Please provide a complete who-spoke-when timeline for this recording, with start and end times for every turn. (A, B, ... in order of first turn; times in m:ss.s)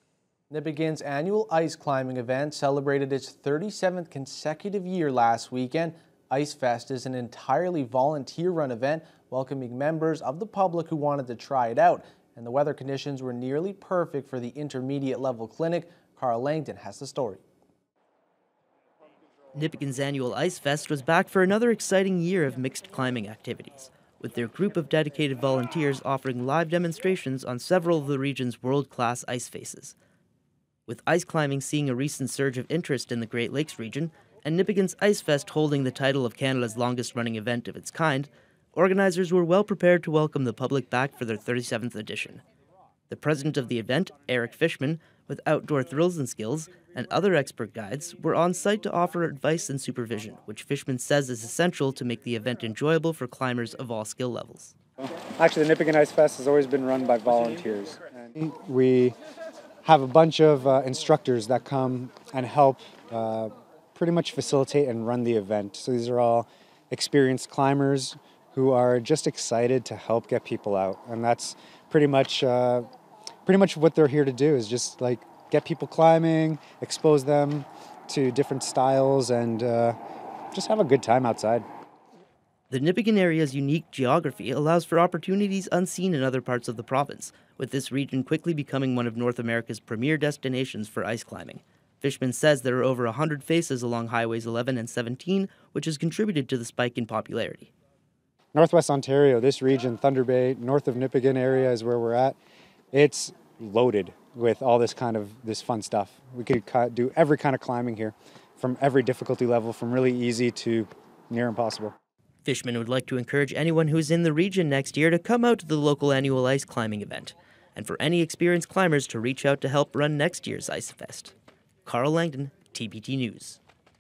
0:00.5-0:17.4 A
0:19.5-0:30.0 B
0:30.9-0:42.4 B
0:43.1-0:54.7 B
0:55.0-0:59.2 C
0:59.8-1:12.9 C
1:13.4-1:20.0 C
1:20.5-1:21.6 C
1:22.7-1:37.7 B
1:38.5-1:42.4 C
1:42.9-1:51.9 C
1:52.4-2:01.3 B
2:01.8-2:03.6 B